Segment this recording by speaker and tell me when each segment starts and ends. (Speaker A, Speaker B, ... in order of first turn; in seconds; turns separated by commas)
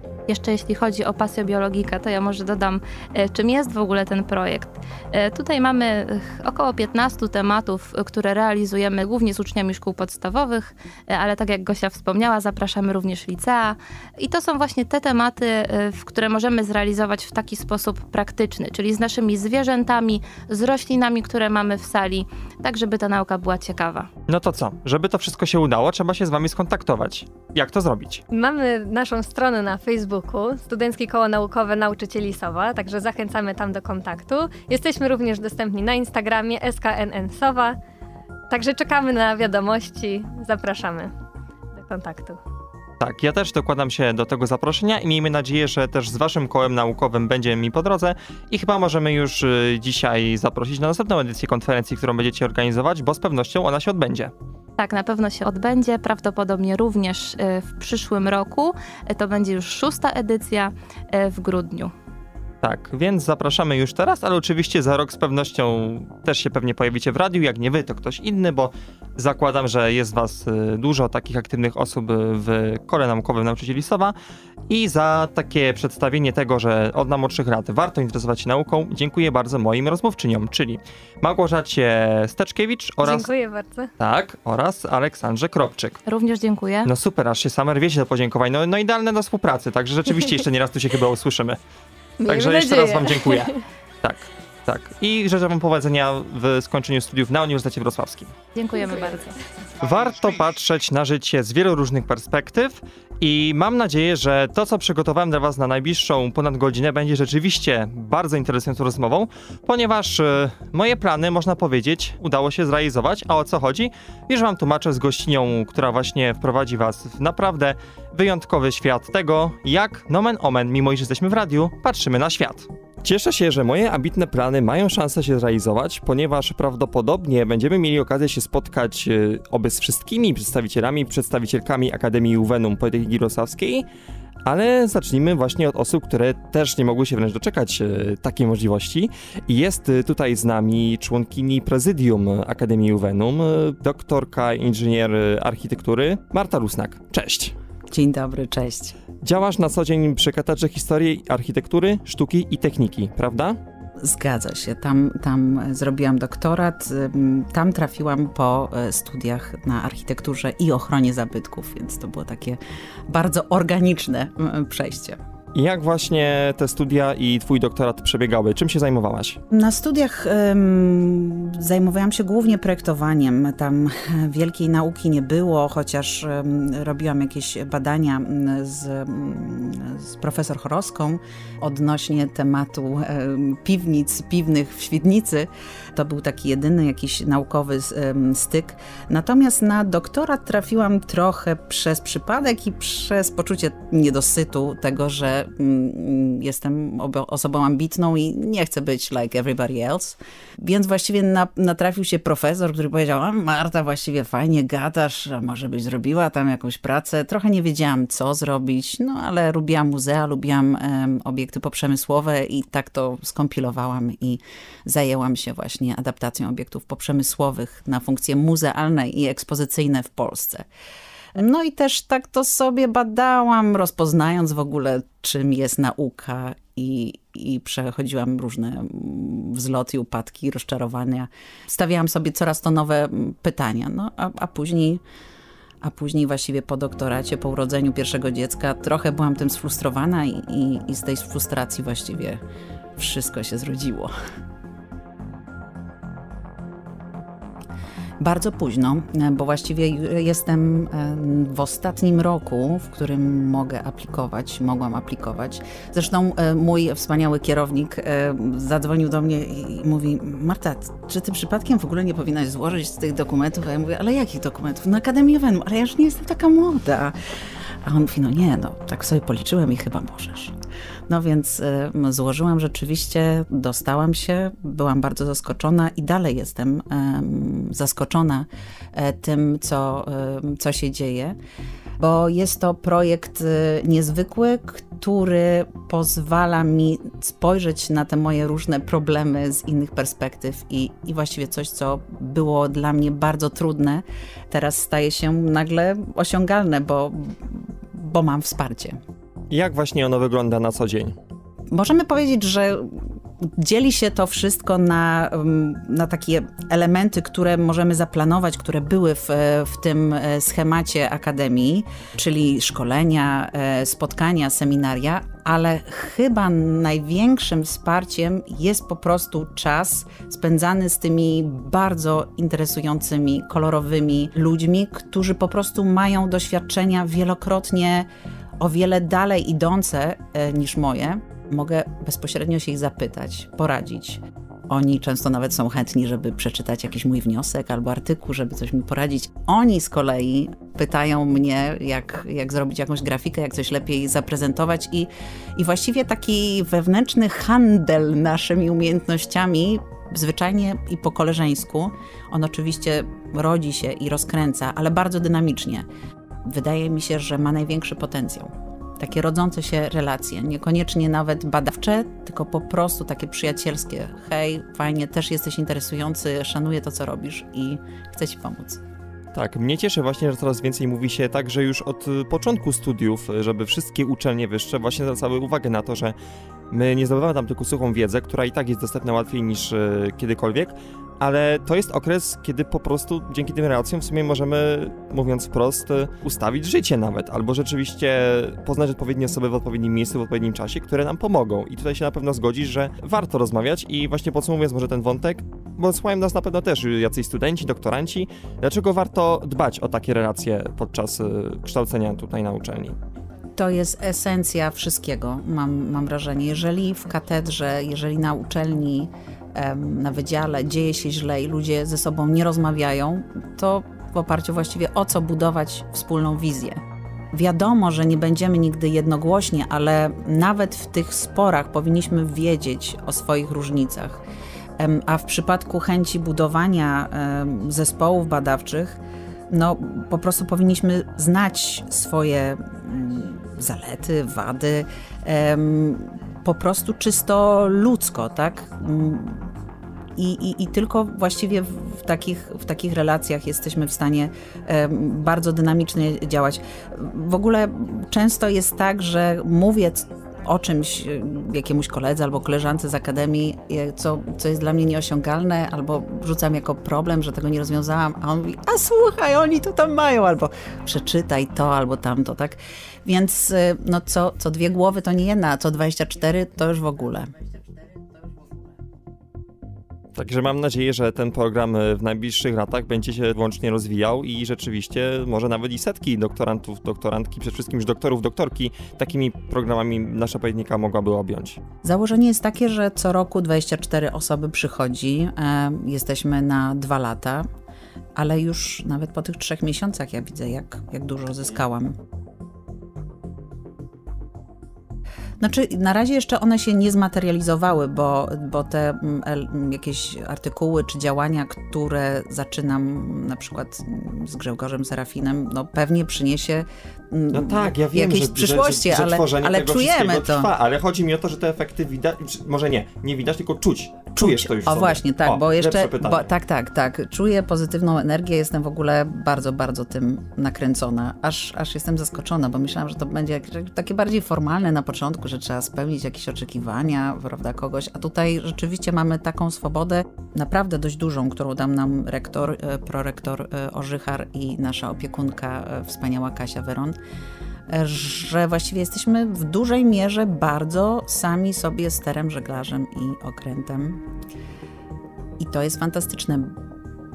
Speaker A: 0.3-24.1, Speaker B: 24.3-28.2, Speaker C: 28.3-37.8, Speaker C: 38.5-41.1, Speaker C: 41.7-42.4, Speaker B: 43.0-54.3, Speaker A: 54.8-61.9, Speaker B: 62.6-74.1, Speaker B: 74.7-83.3, Speaker C: 83.0-83.9, Speaker B: 84.0-86.0, Speaker A: 86.1-86.9, Speaker B: 86.8-91.6, Speaker C: 92.2-93.6, Speaker B: 92.2-98.3, Speaker A: 98.5-99.4, Speaker B: 99.8-133.8, Speaker B: 134.4-147.5, Speaker D: 147.9-148.9, Speaker B: 149.2-153.6, Speaker D: 154.0-165.2, Speaker B: 165.5-169.4, Speaker D: 169.5-220.7, Speaker D: 221.3-235.0, Speaker D: 235.8-242.4, Speaker D: 243.0-244.1, Speaker D: 248.2-267.1, Speaker D: 267.8-270.6, Speaker D: 271.1-281.4, Speaker D: 282.0-299.0, Speaker B: 299.5-301.1, Speaker D: 301.7-355.9, Speaker D: 356.4-368.8, Speaker B: 369.3-376.1, Speaker B: 376.7-402.9, Speaker D: 403.6-416.8, Speaker D: 417.3-424.2, Speaker D: 424.8-439.5, Speaker D: 440.1-467.3, Speaker B: 470.1-481.6, Speaker D: 481.8-487.5, Speaker D: 488.1-492.0, Speaker D: 495.4-510.5, Speaker B: 507.3-516.3, Speaker D: 514.2-537.0, Speaker D: 537.7-544.0, Speaker D: 545.4-546.5